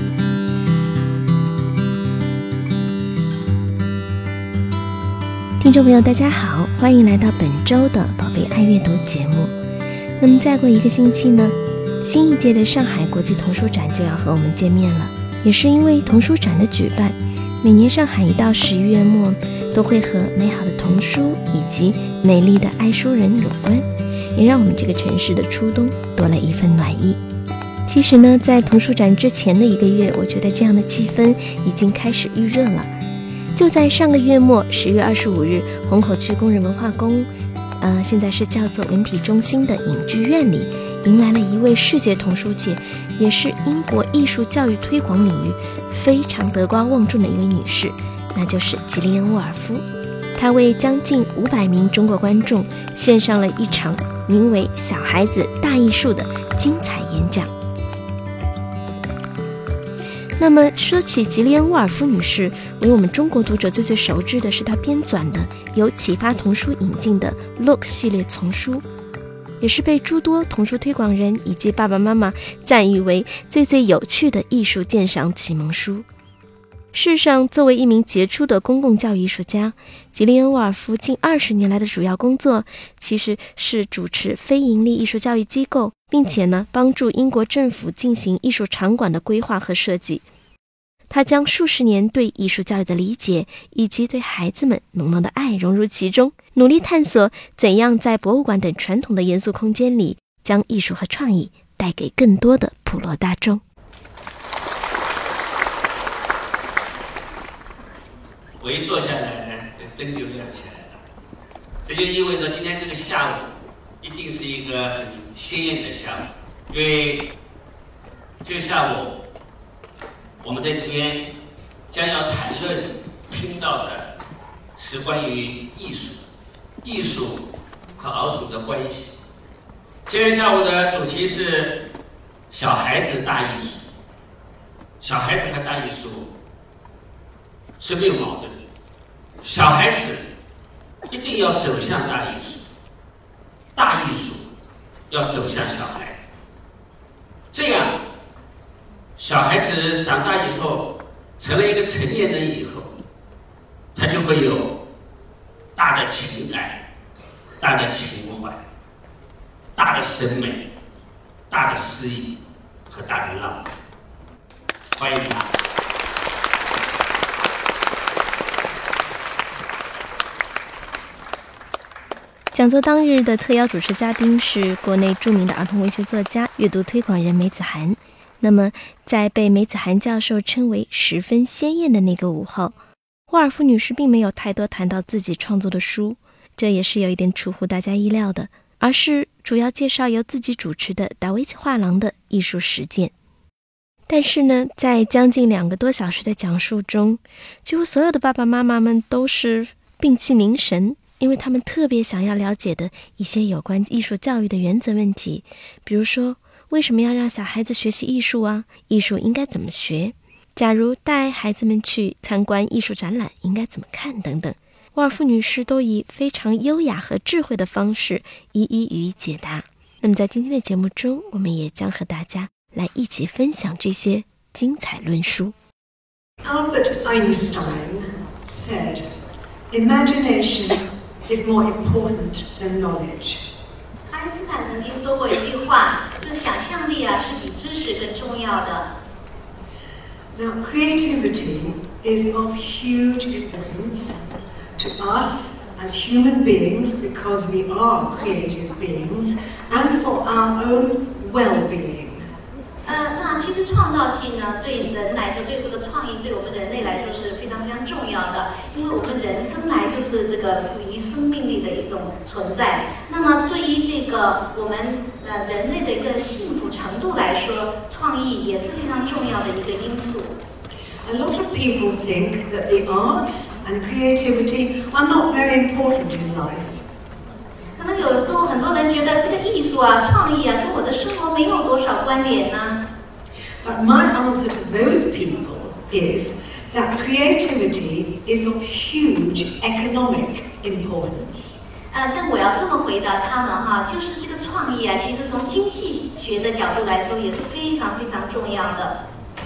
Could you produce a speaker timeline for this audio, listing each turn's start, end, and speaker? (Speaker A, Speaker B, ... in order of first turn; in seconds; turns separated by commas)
Speaker A: 5.6-9.5, Speaker A: 10.2-27.2, Speaker A: 27.9-32.9, Speaker A: 33.5-37.3, Speaker A: 37.8-49.8, Speaker A: 50.4-57.5, Speaker A: 60.4-68.8, Speaker A: 69.6-76.0, Speaker A: 76.9-90.2, Speaker A: 91.1-103.6, Speaker B: 108.6-111.0, Speaker B: 111.8-117.2, Speaker B: 118.4-119.1, Speaker B: 120.4-121.2, Speaker B: 121.9-124.1, Speaker B: 124.8-126.2, Speaker B: 126.8-127.4, Speaker B: 128.0-129.1, Speaker B: 130.1-131.7, Speaker B: 132.5-133.9, Speaker B: 135.0-136.3, Speaker B: 137.8-138.6, Speaker B: 139.4-140.2, Speaker B: 141.1-142.6, Speaker B: 143.7-144.5, Speaker B: 145.1-146.3, Speaker B: 147.5-148.0, Speaker B: 149.2-150.8, Speaker B: 151.4-152.9, Speaker B: 153.9-154.7, Speaker B: 155.8-156.8, Speaker B: 157.6-158.6, Speaker B: 159.8-160.6, Speaker B: 161.5-162.4, Speaker B: 162.9-163.7, Speaker B: 164.9-165.5, Speaker A: 172.5-182.7, Speaker A: 183.3-193.1, Speaker A: 194.1-225.5, Speaker C: 226.4-229.0, Speaker C: 229.7-233.4, Speaker D: 234.1-238.9, Speaker C: 240.3-244.2, Speaker C: 244.8-252.2, Speaker D: 252.9-270.4, Speaker C: 271.0-276.8, Speaker D: 277.8-282.8, Speaker C: 283.6-291.6, Speaker D: 291.9-299.0